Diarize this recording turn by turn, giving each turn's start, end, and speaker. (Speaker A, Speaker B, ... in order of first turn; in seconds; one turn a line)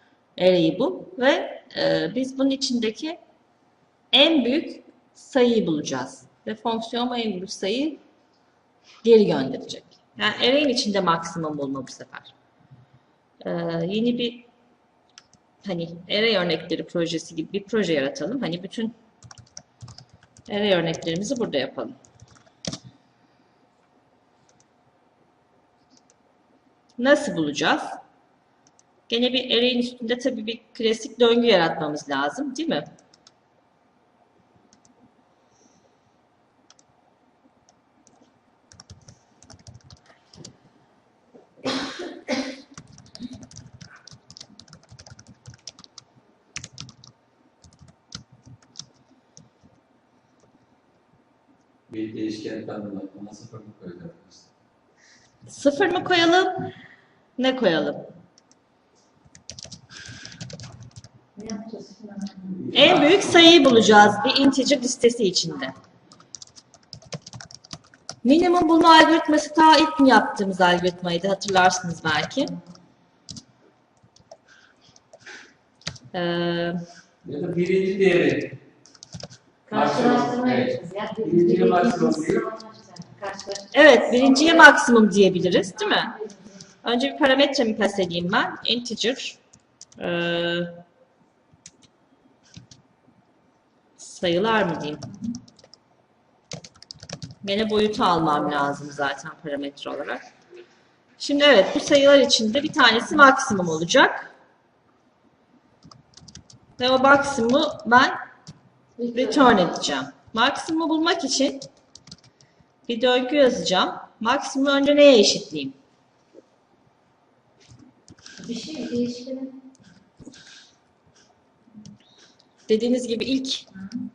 Speaker A: 0.4-3.2
Speaker A: 4.1-8.0
Speaker A: 9.0-12.3
Speaker A: 13.4-14.5
Speaker A: 15.6-18.9
Speaker A: 20.5-22.0
Speaker A: 27.0-28.0
Speaker A: 29.1-32.9
Speaker B: 51.9-54.5
Speaker A: 55.5-56.7
Speaker A: 57.4-58.1
Speaker C: 61.3-62.6
Speaker B: 62.5-64.1
Speaker A: 62.7-65.7
Speaker A: 68.2-72.5
Speaker A: 76.1-76.8
Speaker B: 77.2-78.6
Speaker C: 79.7-84.7
Speaker B: 79.7-82.4
Speaker A: 83.7-86.1
Speaker C: 85.5-86.6
Speaker A: 86.8-89.4
Speaker A: 90.0-90.8
Speaker A: 94.0-95.1
Speaker A: 97.4-100.2
Speaker A: 101.2-104.3
Speaker A: 106.8-108.2
Speaker C: 109.0-109.7
Speaker A: 109.1-111.6
Speaker A: 112.9-115.7
Speaker C: 118.4-119.6
Speaker A: 122.7-123.7